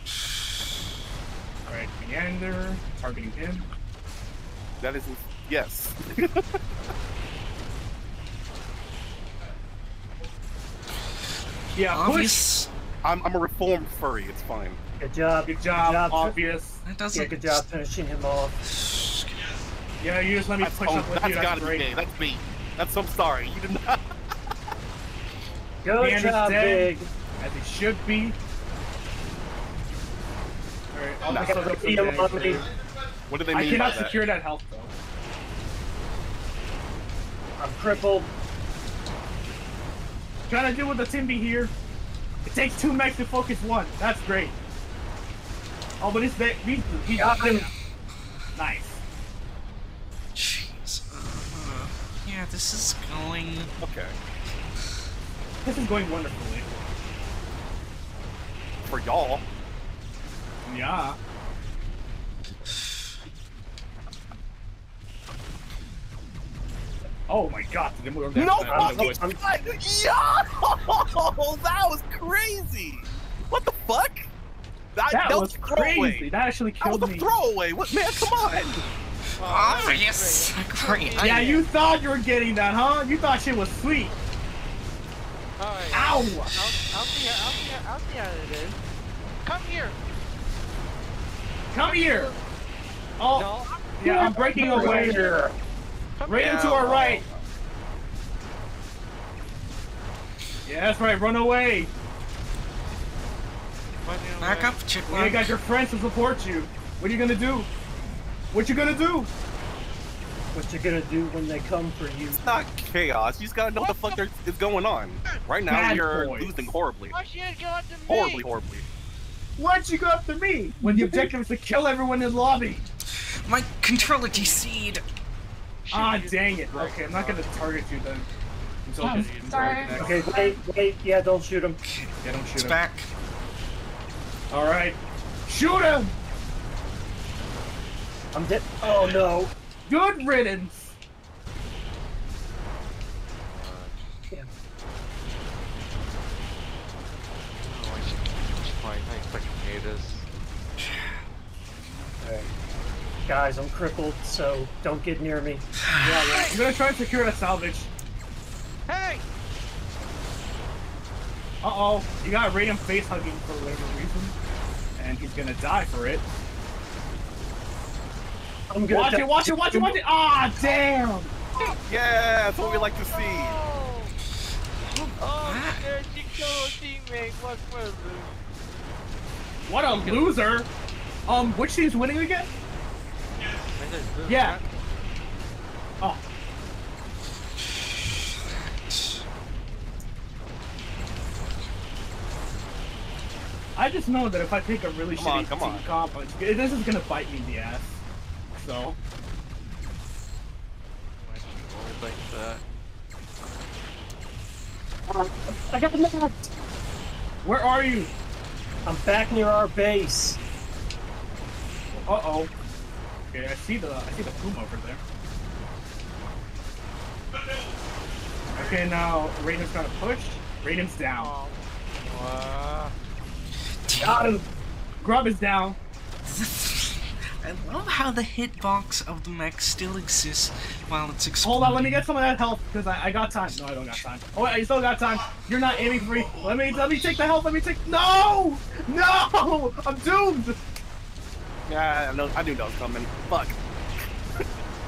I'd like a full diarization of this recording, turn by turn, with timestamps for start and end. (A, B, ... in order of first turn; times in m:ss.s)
0:01.7-0:03.7 A
0:04.8-0:06.5 B
0:11.7-0:12.4 A
0:11.8-0:12.7 C
0:13.0-0:14.8 B
0:15.0-0:16.4 D
0:15.5-0:16.8 A
0:16.8-0:17.7 C
0:17.1-0:18.6 D
0:18.7-0:19.4 C
0:20.0-0:21.9 A
0:20.6-0:24.0 B
0:25.8-0:27.1 D
0:26.0-0:28.4 A
0:30.9-0:32.7 A
0:31.3-0:31.7 B
0:31.4-0:32.6 D
0:33.3-0:34.2 B
0:33.5-0:34.9 A
0:37.6-0:38.3 D
0:40.5-0:41.7 A
0:42.5-0:44.6 A
0:46.0-0:47.7 A
0:47.2-0:47.7 D
0:48.5-0:49.0 A
0:50.4-0:53.7 C
0:53.8-0:54.2 B
0:55.6-0:56.7 A
0:58.9-0:59.4 B
1:00.6-1:01.2 A
1:07.3-1:09.2 A
1:08.4-1:14.3 B
1:08.7-1:09.4 D
1:15.0-1:16.3 B
1:15.1-1:17.3 A
1:16.8-1:18.8 B
1:19.4-1:21.6 C
1:19.4-1:21.6 E
1:21.2-1:24.2 A
1:25.6-1:28.8 E
1:25.9-1:26.6 A
1:29.4-1:30.0 E
1:31.7-1:32.4 A
1:33.2-1:33.5 A
1:33.3-1:35.3 E
1:34.0-1:35.2 A
1:34.2-1:35.5 D
1:36.2-1:37.0 E
1:36.3-1:37.2 A
1:36.4-1:37.1 B
1:40.6-1:41.9 A
1:44.0-1:44.8 E
1:44.4-1:45.5 C
1:45.0-1:47.7 A
1:48.5-1:49.3 A
1:50.5-1:52.5 D
1:52.3-1:57.2 B
1:53.8-1:54.2 E
1:55.6-1:56.8 A
1:57.1-1:58.5 E
1:58.1-1:58.9 B
1:59.6-2:02.9 A
2:03.4-2:05.0 C
2:05.8-2:07.6 E
2:05.9-2:08.3 A
2:08.9-2:10.3 A
2:09.0-2:10.0 E
2:10.0-2:11.8 D
2:11.8-2:13.1 C
2:12.2-2:12.8 A
2:14.5-2:16.1 A
2:18.3-2:19.5 D
2:19.8-2:21.0 A
2:23.5-2:23.9 E
2:28.6-2:29.7 E
2:32.2-2:32.5 D
2:33.3-2:36.5 D
2:35.8-2:36.2 C
2:36.2-2:36.6 E
2:36.5-2:37.9 A
2:38.9-2:39.2 E
2:41.6-2:44.4 A
2:45.0-2:46.3 A
2:48.7-2:50.0 D
2:48.9-2:51.4 A
2:51.9-2:53.6 B
2:52.6-2:54.1 E
2:54.9-2:55.9 C
2:55.2-2:58.4 E
2:59.6-3:00.7 A
3:01.3-3:02.5 A
3:03.7-3:04.7 E
3:04.3-3:04.6 A
3:08.9-3:09.2 C
3:13.8-3:18.0 A
3:15.2-3:15.8 B
3:18.5-3:19.0 A
3:21.2-3:22.6 E
3:25.1-3:26.5 D
3:27.4-3:28.1 A
3:28.8-3:30.4 D
3:32.0-3:32.5 A
3:33.3-3:35.0 A
3:38.5-3:41.3 A
3:41.2-3:42.9 E
3:43.8-3:44.3 C
3:44.0-3:44.4 D
3:45.0-3:45.8 A
3:46.2-3:52.0 C
3:51.4-4:00.6 A
4:01.7-4:03.6 B